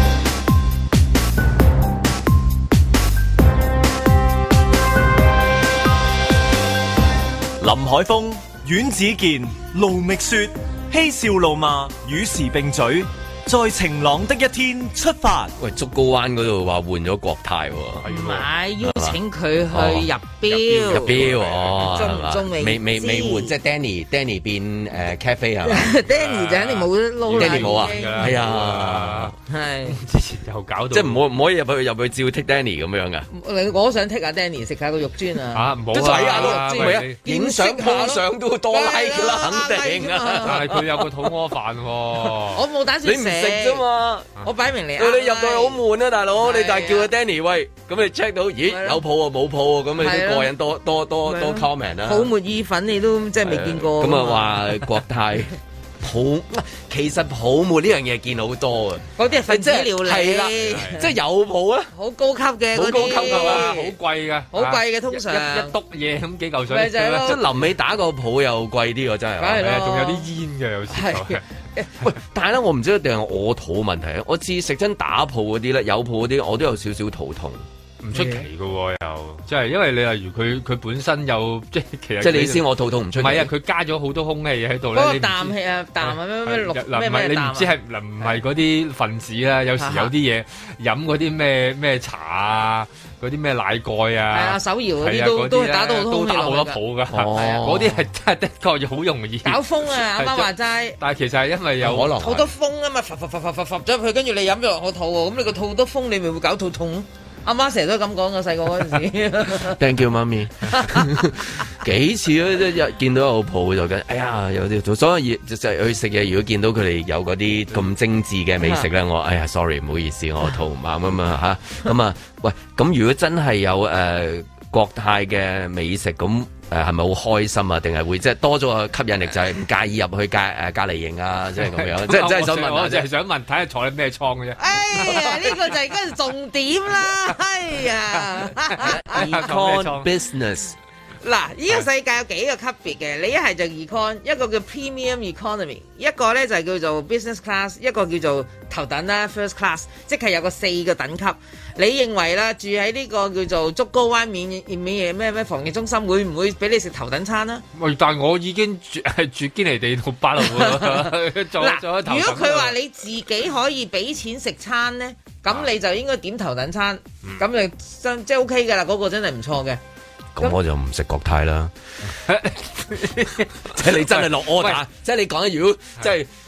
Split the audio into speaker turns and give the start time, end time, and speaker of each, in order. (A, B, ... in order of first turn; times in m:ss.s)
0:07.6-0:15.5 A
0:15.6-0:18.1 B
0:18.1-0:18.4 C
0:18.1-0:21.3 D
0:18.8-0:19.2 B
0:19.7-0:20.1 B
0:20.5-0:21.9 C
0:20.9-0:25.9 B
0:21.8-0:23.5 D
0:25.7-0:28.4 D
0:26.0-0:29.4 C
0:27.4-0:29.3 B
0:29.5-0:30.0 D
0:29.9-0:31.2 C
0:30.9-0:33.3 B
0:33.3-0:40.8 D
0:35.5-0:37.2 C
0:35.9-0:41.1 B
0:40.4-0:42.6 C
0:42.4-0:43.8 D
0:43.0-0:44.3 B
0:44.4-0:45.8 D
0:45.0-0:52.3 B
0:46.4-0:47.1 D
0:48.7-0:49.0 D
0:50.0-0:50.5 D
0:51.3-0:54.6 D
0:53.4-1:01.9 B
0:59.2-1:01.1 D
1:00.6-1:01.0 C
1:01.9-1:03.9 D
1:02.7-1:03.9 B
1:03.0-1:07.3 C
1:04.5-1:05.8 D
1:06.7-1:07.4 D
1:07.2-1:09.6 B
1:09.4-1:10.3 D
1:09.5-1:11.4 C
1:10.9-1:11.9 D
1:12.0-1:17.6 B
1:18.0-1:22.6 C
1:18.1-1:18.4 D
1:22.2-1:23.5 B
1:23.2-1:42.2 C
1:24.9-1:28.4 D
1:29.8-1:30.1 D
1:34.3-1:36.8 D
1:37.1-1:38.0 B
1:37.3-1:37.7 D
1:39.4-1:41.0 D
1:41.8-1:42.5 B
1:42.1-1:49.8 D
1:49.8-2:13.1 B
2:11.6-2:15.7 C
2:14.6-2:19.3 D
2:18.6-2:20.1 C
2:18.8-2:20.8 B
2:21.2-2:37.6 D
2:37.8-2:42.8 C
2:40.4-2:49.8 D
2:50.4-2:51.7 B
2:52.3-2:54.8 C
2:53.7-2:56.3 B